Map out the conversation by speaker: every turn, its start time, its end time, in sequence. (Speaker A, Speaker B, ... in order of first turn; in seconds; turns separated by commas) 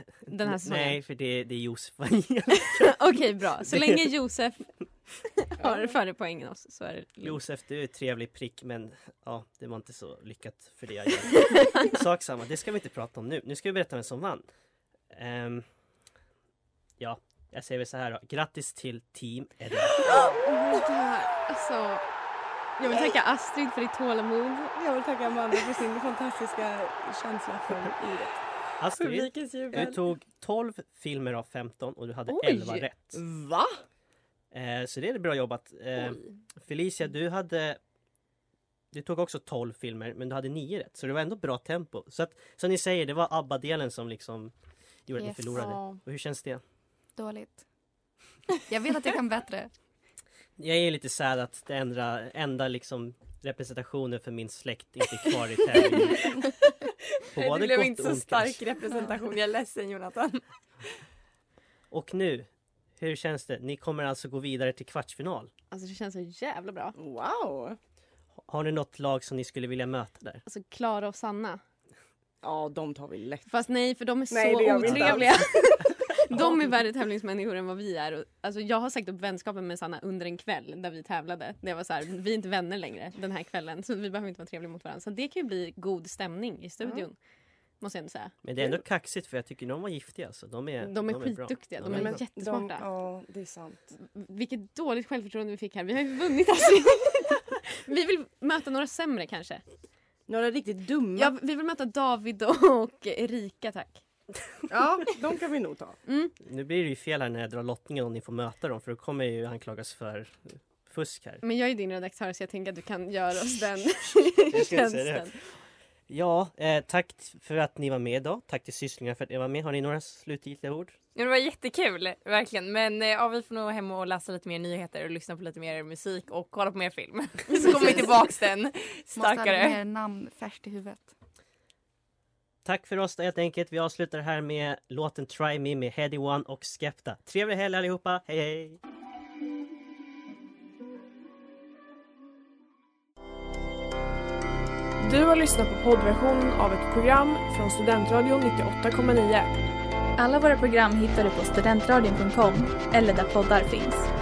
Speaker A: 0.3-3.0, Speaker B: 0.3-1.0, Speaker B: 2.7-7.4, Speaker A: 3.6-4.1, Speaker C: 5.6-6.0, Speaker A: 7.2-14.4, Speaker B: 11.3-11.8, Speaker A: 15.1-15.7, Speaker A: 17.0-20.4, Speaker C: 20.0-20.8, Speaker B: 20.0-22.0, Speaker B: 22.8-24.8, Speaker C: 24.8-28.4, Speaker A: 28.8-33.2, Speaker C: 29.0-30.0, Speaker C: 33.1-33.8, Speaker A: 34.5-37.8, Speaker A: 38.9-44.5, Speaker A: 45.1-46.6, Speaker D: 45.2-45.8, Speaker D: 47.2-47.6, Speaker D: 48.7-49.7, Speaker A: 50.6-56.5, Speaker E: 57.2-60.4, Speaker A: 57.3-58.6, Speaker A: 61.9-65.5, Speaker B: 65.7-67.0, Speaker C: 67.0-67.8, Speaker A: 68.5-70.4, Speaker B: 70.5-71.6, Speaker C: 72.4-73.5, Speaker B: 73.5-87.2, Speaker C: 74.3-75.6, Speaker A: 74.8-75.2, Speaker C: 76.3-76.7, Speaker C: 86.8-87.1, Speaker B: 87.8-88.3, Speaker A: 88.4-92.2, Speaker B: 90.8-92.8, Speaker C: 91.9-93.9, Speaker B: 93.9-99.6, Speaker C: 100.3-101.3, Speaker B: 101.2-104.0, Speaker C: 104.7-106.0, Speaker B: 106.1-106.3, Speaker A: 106.4-111.4, Speaker B: 111.4-115.3, Speaker A: 114.5-115.5, Speaker A: 116.1-121.0, Speaker E: 121.2-129.8, Speaker B: 127.5-128.1, Speaker D: 129.1-131.1, Speaker A: 132.7-138.8, Speaker F: 145.0-149.5, Speaker G: 150.2-154.1